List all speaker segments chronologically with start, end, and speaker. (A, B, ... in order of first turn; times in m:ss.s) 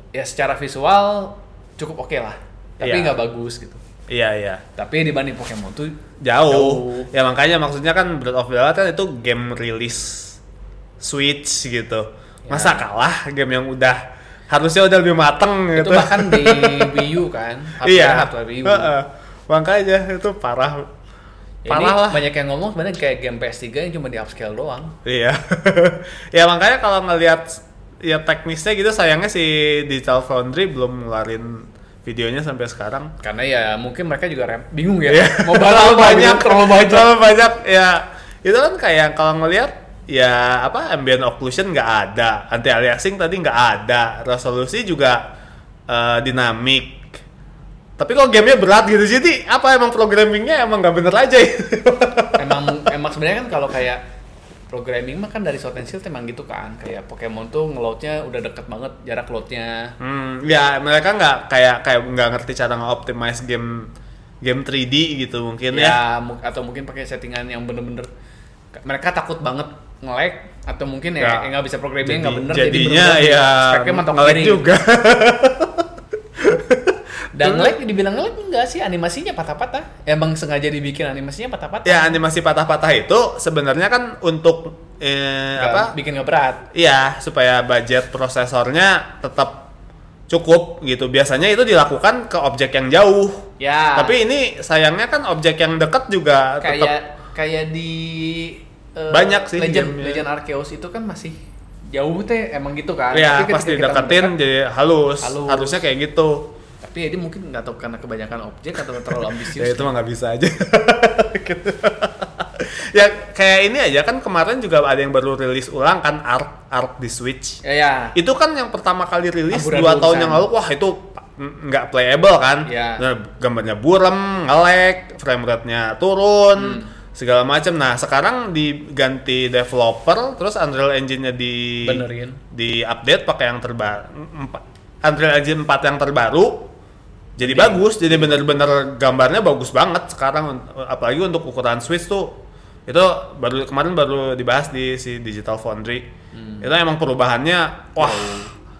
0:00.1-0:03.8 A
0:02.8-0:03.2 B
0:04.1-0:04.6 B
0:04.8-0:07.1 A
0:06.2-0:10.4 B
0:11.0-0:17.1 B
0:12.5-0:12.8 A
0:15.8-0:18.9 A
0:17.8-0:20.9 B
0:21.6-0:24.9 A
0:21.7-0:22.2 B
0:25.0-0:33.1 B
0:33.2-0:37.2 A
0:35.1-0:45.3 B
0:45.9-0:47.2 B
0:48.0-0:52.8 B
0:52.4-0:54.0 A
0:54.7-0:59.9 A
1:00.0-1:06.0 B
1:05.7-1:08.1 A
1:08.7-1:14.7 A
1:11.2-1:17.8 B
1:17.3-1:22.2 A
1:21.8-1:25.9 B
1:25.6-1:26.6 A
1:26.7-1:29.7 B
1:30.3-1:36.9 B
1:33.6-1:34.2 A
1:36.6-1:41.4 A
1:39.1-1:40.2 B
1:41.9-1:44.4 A
1:43.1-1:46.5 B
1:45.2-1:45.8 A
1:46.8-1:49.9 A
1:49.2-1:57.6 B
1:57.6-1:58.2 A
1:58.1-2:16.7 B
1:59.5-2:00.4 A
2:02.6-2:03.0 A
2:06.6-2:06.9 A
2:11.8-2:12.4 A
2:17.4-2:26.1 B
2:17.4-2:18.4 A
2:26.3-2:26.7 A
2:26.6-2:28.5 B
2:28.0-2:28.5 A